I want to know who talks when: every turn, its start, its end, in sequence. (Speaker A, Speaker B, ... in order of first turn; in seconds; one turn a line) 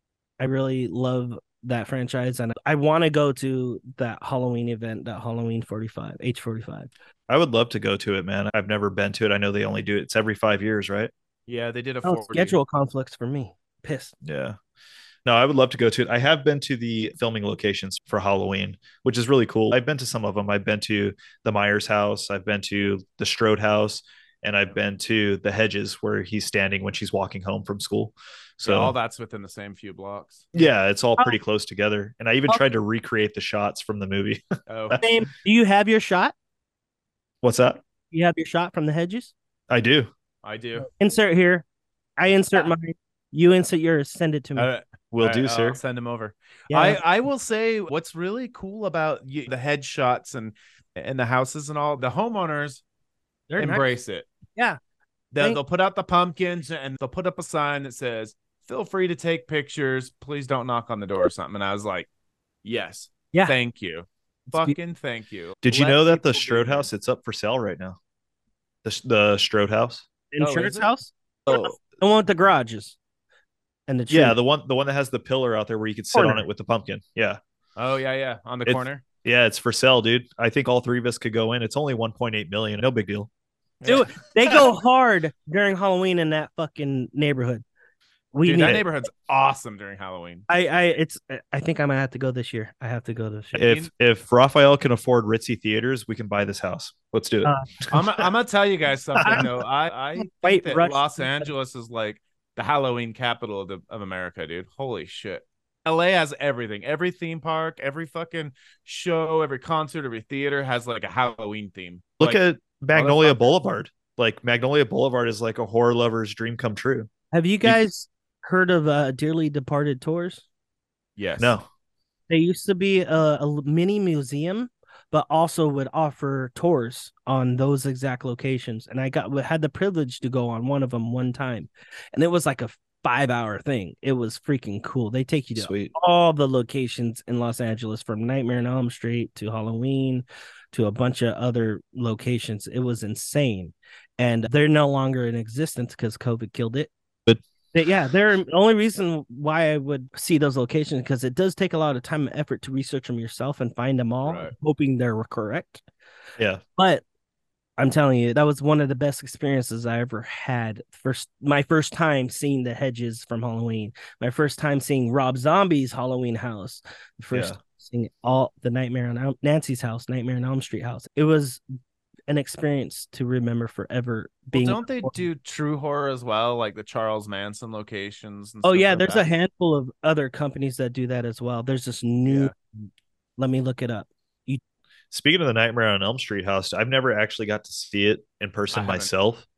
Speaker A: 0.4-6.9
Speaker B: 7.3-11.1
Speaker C: 11.5-12.6
Speaker A: 12.0-14.1
Speaker B: 14.2-14.6
Speaker B: 15.2-28.9
Speaker C: 28.6-30.5
Speaker B: 30.5-35.0
Speaker C: 34.7-35.0
Speaker A: 35.0-36.3
Speaker B: 37.4-37.8
Speaker A: 38.1-39.3
Speaker B: 39.7-40.1
Speaker C: 40.4-40.9
Speaker A: 40.8-41.6
Speaker A: 42.2-44.7
Speaker C: 44.5-52.8
Speaker B: 45.1-45.8
Speaker A: 46.7-47.0
Speaker A: 53.5-53.9
Speaker C: 53.6-54.3
Speaker C: 55.3-62.1
Speaker C: 62.6-66.9
Speaker B: 65.6-68.0
Speaker B: 68.8-70.0
Speaker A: 70.3-73.0
Speaker C: 70.4-70.9
Speaker A: 73.9-74.3
Speaker B: 74.1-77.4
Speaker A: 76.1-76.5
Speaker C: 77.8-79.0
Speaker B: 78.7-83.3
Speaker C: 83.8-84.1
Speaker A: 83.8-87.6
Speaker A: 88.3-88.8
Speaker C: 88.4-90.5
Speaker A: 90.5-93.7
Speaker B: 93.5-98.2
Speaker C: 93.6-93.9
Speaker C: 97.9-112.4
Speaker A: 99.2-99.5
Speaker A: 100.2-101.5
Speaker B: 112.2-117.1
Speaker C: 112.9-113.5
Speaker A: 117.3-120.4
Speaker C: 121.2-121.5
Speaker B: 121.4-121.7
Speaker A: 122.3-146.9
Speaker B: 135.6-135.9
Speaker A: 147.7-155.8
Speaker C: 154.2-154.5
Speaker A: 156.8-157.0
Speaker A: 157.8-171.6
Speaker B: 167.3-167.6
Speaker A: 172.3-175.2
Speaker C: 174.5-179.3
Speaker A: 178.6-182.5
Speaker C: 182.3-182.5
Speaker A: 183.4-184.6
Speaker B: 185.1-189.4
Speaker C: 188.7-189.1